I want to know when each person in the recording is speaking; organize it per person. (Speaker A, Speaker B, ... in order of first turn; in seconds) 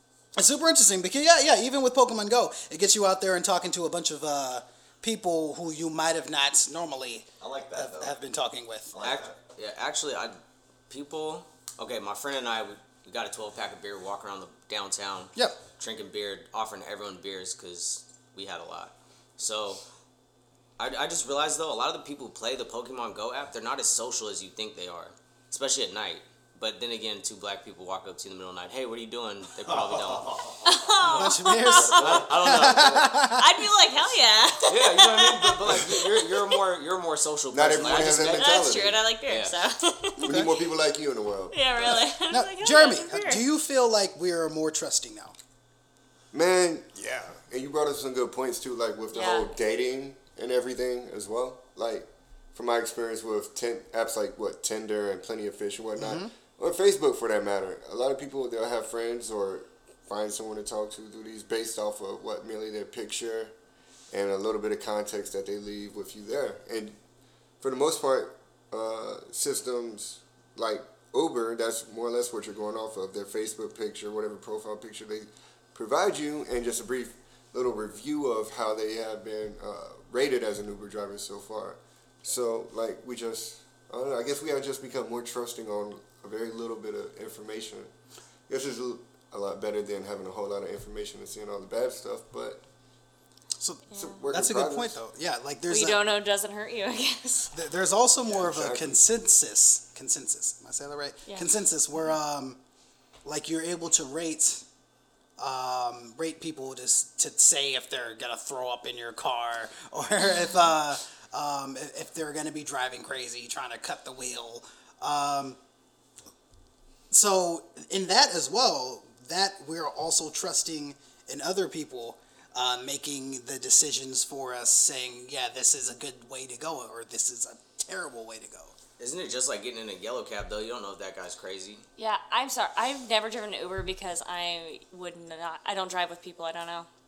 Speaker A: 0.3-8.9, 31.1-33.5, 40.2-40.5, 42.3-45.3, 56.0-56.3, 93.6-96.0, 97.5-102.6, 103.2-104.6, 105.4-115.6, 117.1-128.7
Speaker B: 7.4-8.2, 8.9-9.4, 29.6-30.6, 31.7-32.8
Speaker C: 9.0-19.8, 20.8-30.4, 31.9-33.1, 34.7-38.6, 39.3-39.6, 129.0-131.8
Speaker D: 30.6-32.3, 33.2-36.5, 38.0-40.3, 41.5-43.4, 49.1-49.5, 93.9-94.2, 95.7-97.5, 132.0-136.9
Speaker E: 37.5-39.0, 40.2-41.9, 46.3-63.5, 64.1-67.0, 67.6-87.9, 88.5-92.6, 93.9-95.0, 98.3-99.0